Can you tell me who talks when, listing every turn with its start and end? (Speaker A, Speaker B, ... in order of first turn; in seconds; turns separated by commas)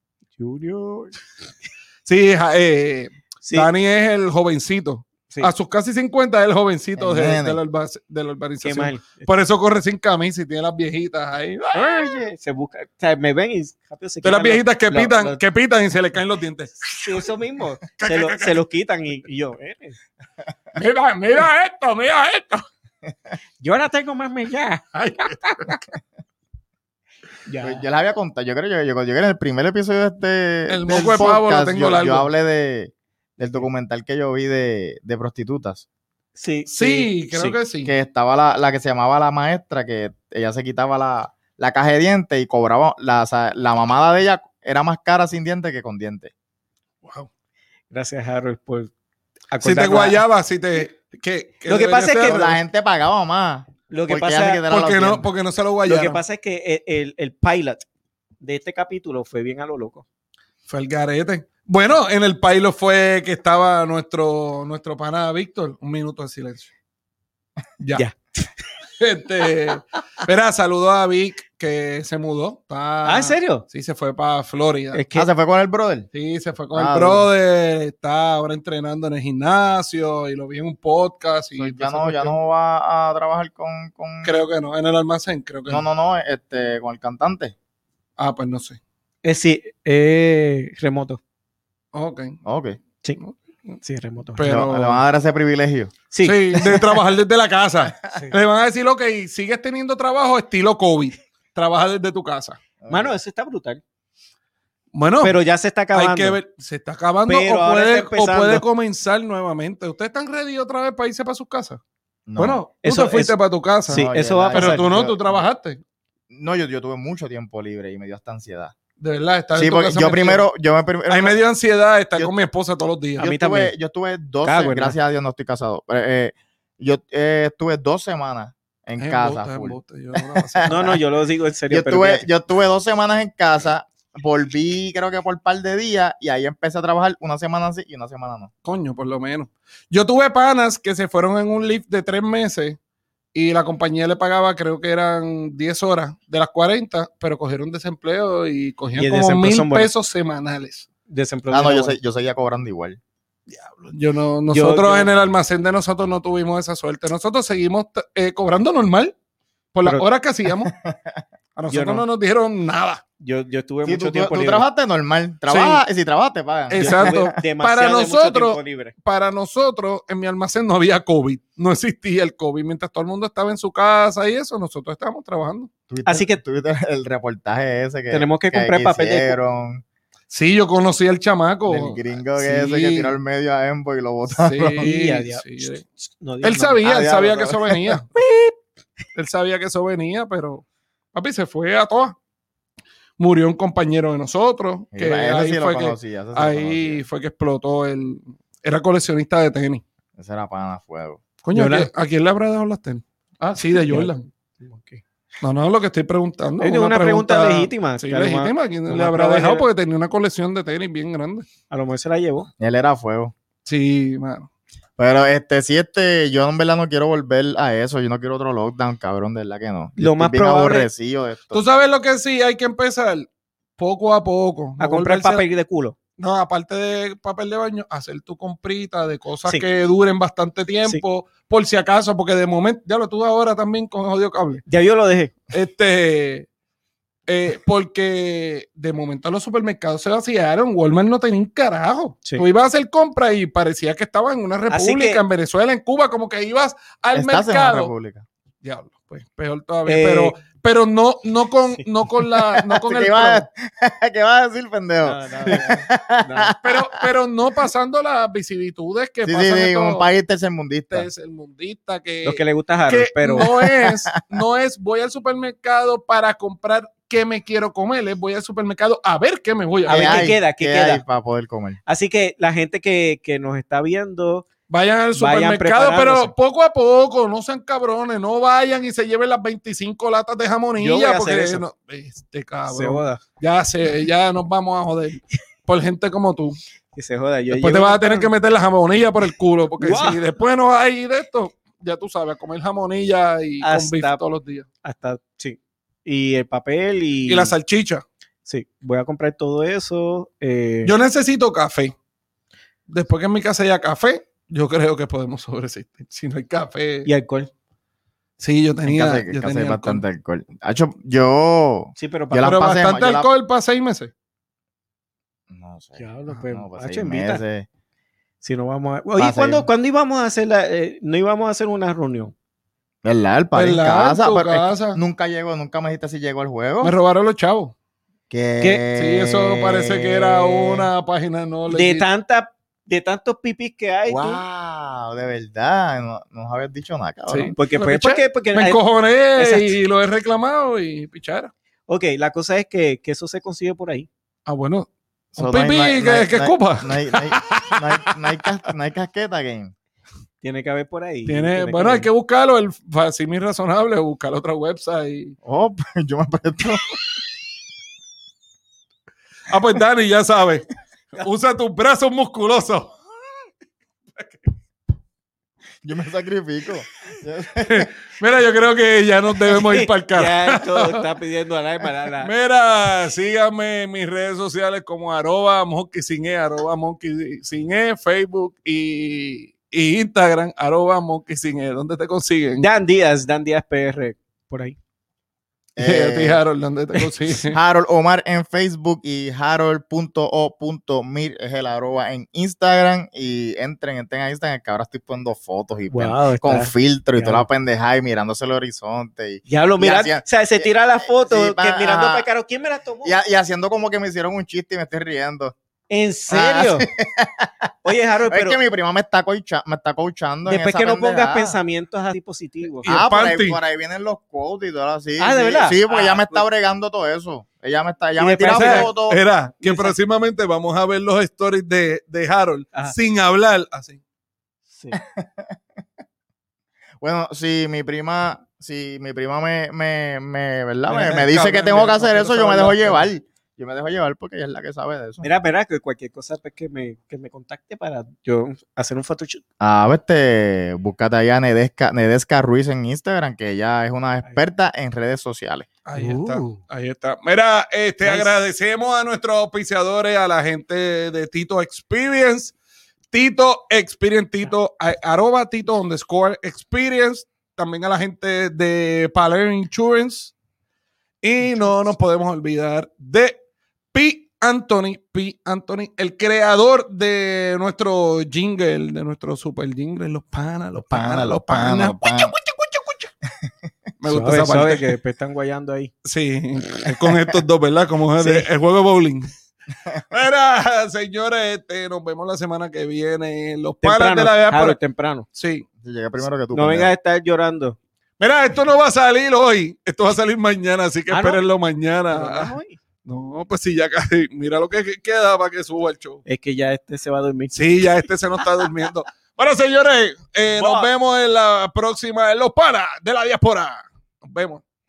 Speaker A: 0.4-1.2, Speaker B: 2.0-12.0, Speaker A: 3.4-3.7, Speaker C: 7.0-7.6, Speaker A: 8.6-9.3, Speaker A: 11.7-15.4, Speaker B: 14.2-17.2, Speaker A: 17.0-20.0, Speaker B: 17.9-18.6, Speaker B: 20.8-22.6, Speaker A: 23.6-25.3, Speaker B: 24.9-25.8, Speaker A: 27.4-27.8, Speaker C: 27.6-35.8, Speaker B: 30.7-32.3, Speaker A: 36.4-37.6, Speaker B: 36.7-37.9, Speaker C: 37.9-46.3, Speaker A: 47.9-48.9, Speaker A: 49.5-50.2, Speaker B: 49.6-52.5, Speaker A: 51.7-52.6, Speaker C: 52.2-55.3, Speaker A: 53.9-54.6, Speaker B: 54.7-56.2, Speaker A: 55.9-57.8, Speaker A: 58.4-60.0, Speaker B: 60.7-66.7, Speaker B: 69.0-75.0, Speaker A: 73.0-73.7, Speaker A: 74.9-75.3, Speaker C: 75.1-76.1, Speaker B: 76.1-82.4, Speaker C: 76.7-77.3, Speaker C: 81.6-84.3, Speaker B: 84.2-85.8, Speaker C: 85.7-87.5, Speaker B: 88.2-88.8, Speaker A: 89.2-91.2, Speaker B: 91.9-92.4, Speaker C: 92.4-92.8, Speaker B: 93.2-93.8, Speaker A: 93.8-94.4, Speaker B: 94.3-95.0, Speaker C: 94.4-95.9, Speaker A: 96.1-97.0, Speaker B: 96.2-102.6, Speaker C: 102.8-103.1, Speaker A: 102.9-103.8, Speaker B: 104.9-105.4, Speaker A: 105.2-106.4, Speaker B: 105.9-111.8, Speaker A: 107.3-108.6, Speaker C: 112.3-112.6, Speaker B: 112.3-115.8, Speaker A: 112.8-113.3, Speaker A: 113.9-114.8, Speaker C: 113.9-115.4, Speaker C: 116.3-118.7, Speaker B: 119.0-120.5, Speaker C: 119.5-121.4, Speaker B: 121.1-123.3, Speaker A: 123.2-123.7, Speaker C: 123.2-131.0, Speaker A: 124.4-125.0, Speaker B: 129.0-131.0, Speaker A: 130.7-132.3, Speaker C: 131.7-138.5, Speaker B: 138.6-142.8, Speaker B: 143.3-150.9, Speaker A: 149.0-149.9, Speaker A: 151.1-152.0, Speaker C: 151.5-153.0, Speaker B: 153.5-159.1, Speaker A: 154.5-155.1, Speaker B: 159.7-160.7, Speaker C: 160.6-161.2, Speaker B: 161.6-163.0, Speaker A: 161.7-162.0, Speaker A: 163.2-164.6, Speaker C: 163.8-167.3, Speaker B: 165.5-165.8, Speaker B: 166.7-175.7, Speaker A: 166.8-168.9, Speaker C: 175.9-179.8, Speaker A: 176.1-176.4, Speaker A: 178.1-179.3, Speaker B: 180.3-183.1, Speaker C: 181.7-184.9, Speaker B: 184.3-185.8, Speaker A: 184.8-186.8, Speaker B: 186.4-188.1, Speaker C: 186.8-188.0, Speaker A: 188.2-188.5, Speaker B: 189.1-192.2, Speaker B: 193.2-199.8, Speaker C: 194.9-197.0, Speaker C: 200.2-201.2, Speaker B: 201.4-204.2, Speaker A: 201.5-201.9, Speaker A: 203.8-205.0, Speaker B: 205.4-211.4, Speaker A: 206.6-209.7, Speaker A: 211.7-212.5, Speaker C: 212.6-213.3, Speaker B: 213.6-214.5, Speaker C: 215.0-221.7, Speaker A: 220.0-220.9, Speaker B: 221.5-225.4, Speaker A: 224.8-225.9, Speaker B: 226.2-234.6, Speaker A: 234.7-235.4, Speaker B: 235.5-236.5, Speaker B: 237.3-247.9, Speaker A: 244.7-245.2, Speaker C: 247.1-248.2, Speaker B: 248.6-253.4, Speaker A: 249.8-250.3, Speaker C: 252.5-257.1, Speaker A: 255.0-256.5, Speaker B: 256.6-260.1, Speaker C: 259.2-261.1, Speaker B: 260.9-270.3, Speaker A: 262.2-263.5, Speaker C: 263.4-263.9, Speaker A: 269.9-271.0, Speaker C: 269.9-271.8, Speaker A: 271.9-274.4, Speaker B: 274.7-286.6, Speaker A: 275.1-276.3, Speaker A: 280.8-281.6, Speaker A: 282.7-283.2, Speaker A: 286.9-288.3, Speaker B: 287.5-294.6, Speaker A: 289.8-290.2, Speaker A: 293.6-294.2, Speaker A: 294.8-297.5, Speaker B: 297.3-298.0, Speaker A: 298.4-300.9, Speaker B: 300.8-301.9, Speaker B: 302.9-307.1, Speaker A: 307.1-307.5, Speaker B: 308.4-310.0, Speaker C: 308.8-313.3, Speaker A: 312.0-312.7, Speaker B: 312.4-314.1, Speaker C: 315.5-317.6, Speaker A: 316.0-317.4, Speaker A: 318.4-322.3, Speaker C: 319.2-319.7, Speaker C: 323.0-326.9, Speaker B: 323.5-325.0, Speaker B: 326.8-327.7, Speaker C: 328.3-330.9, Speaker B: 328.9-332.1, Speaker A: 331.7-334.4, Speaker C: 334.1-337.5, Speaker B: 337.3-341.5, Speaker A: 337.6-338.8, Speaker A: 339.4-339.8, Speaker A: 341.9-344.1, Speaker B: 344.4-348.2, Speaker C: 345.3-349.7, Speaker A: 350.4-352.1, Speaker B: 351.2-355.4, Speaker C: 355.4-356.8, Speaker B: 359.5-363.0, Speaker C: 365.8-367.9, Speaker B: 367.6-371.0, Speaker A: 369.5-372.3, Speaker B: 372.2-382.7, Speaker A: 382.6-384.8, Speaker C: 385.8-386.4, Speaker B: 385.8-387.6, Speaker C: 387.4-402.2, Speaker A: 395.9-397.4, Speaker A: 399.5-403.2, Speaker C: 403.0-405.5, Speaker A: 405.9-406.9, Speaker C: 406.3-407.7, Speaker A: 407.8-408.6, Speaker C: 408.3-411.6, Speaker A: 410.4-412.9, Speaker B: 412.8-413.6, Speaker C: 412.8-419.2, Speaker A: 415.2-416.4, Speaker A: 418.2-418.9, Speaker B: 418.5-424.0, Speaker A: 419.6-419.9, Speaker A: 424.7-425.0, Speaker C: 424.9-425.6, Speaker C: 427.0-435.3, Speaker B: 430.9-433.0, Speaker A: 435.2-439.4, Speaker C: 439.6-445.7, Speaker B: 445.9-452.5, Speaker A: 445.9-446.6, Speaker A: 448.0-448.3, Speaker B: 453.1-460.3, Speaker B: 461.2-463.4, Speaker B: 463.9-473.1, Speaker C: 470.9-472.3, Speaker B: 474.0-474.9, Speaker A: 474.0-475.9, Speaker B: 476.0-479.3, Speaker A: 478.2-478.5, Speaker B: 480.1-484.8, Speaker A: 483.8-485.3, Speaker B: 485.3-485.6, Speaker C: 485.8-486.9, Speaker A: 486.5-487.8, Speaker B: 488.2-496.2, Speaker A: 491.1-491.4, Speaker A: 492.1-492.8, Speaker A: 496.2-497.9, Speaker B: 497.5-504.6, Speaker A: 500.4-500.9